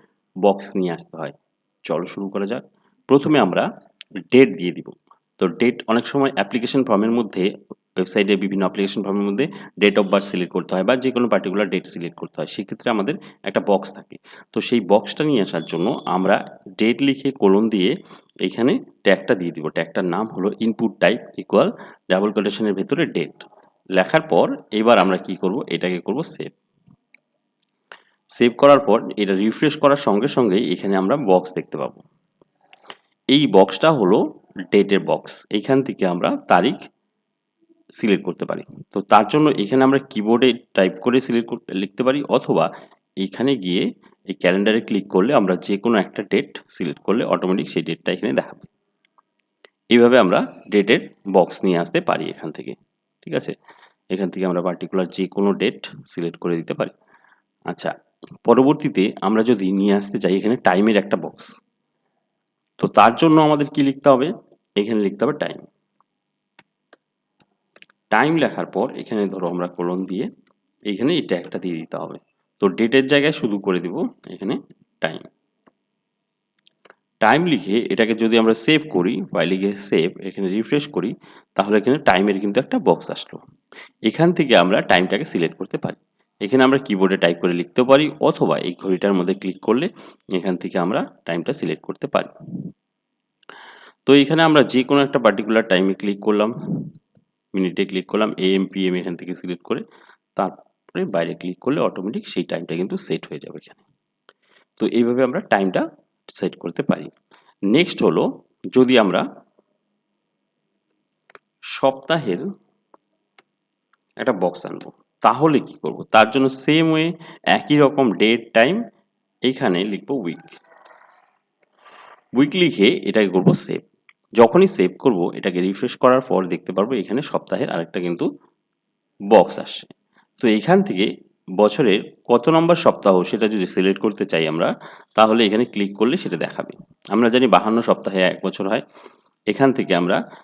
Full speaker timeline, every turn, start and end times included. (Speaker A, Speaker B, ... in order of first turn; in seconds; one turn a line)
Speaker A: 0.4-1.3
Speaker A: 1.9-3.6
Speaker A: 4.3-7.5
Speaker A: 8.0-23.4
Speaker A: 23.9-26.5
Speaker A: 28.4-32.0
Speaker A: 33.3-36.8
Speaker A: 38.0-42.7
Speaker A: 43.2-48.7
Speaker A: 49.9-53.5
Speaker A: 54.1-56.9
Speaker A: 58.5-61.5
Speaker A: 62.8-65.7
Speaker A: 68.1-70.3
Speaker A: 70.9-75.3
Speaker A: 77.2-83.4
Speaker A: 84.1-92.3
Speaker A: 94.1-96.5
Speaker A: 97.5-99.8
Speaker A: 100.3-103.8
Speaker A: 104.8-107.1
Speaker A: 107.7-109.2
Speaker A: 111.8-112.5
Speaker A: 114.2-118.8
Speaker A: 119.5-120.5
Speaker A: 122.4-123.8
Speaker A: 124.4-128.2
Speaker A: 129.3-129.9
Speaker A: 130.4-131.1
Speaker A: 131.6-138.8
Speaker A: 139.5-140.2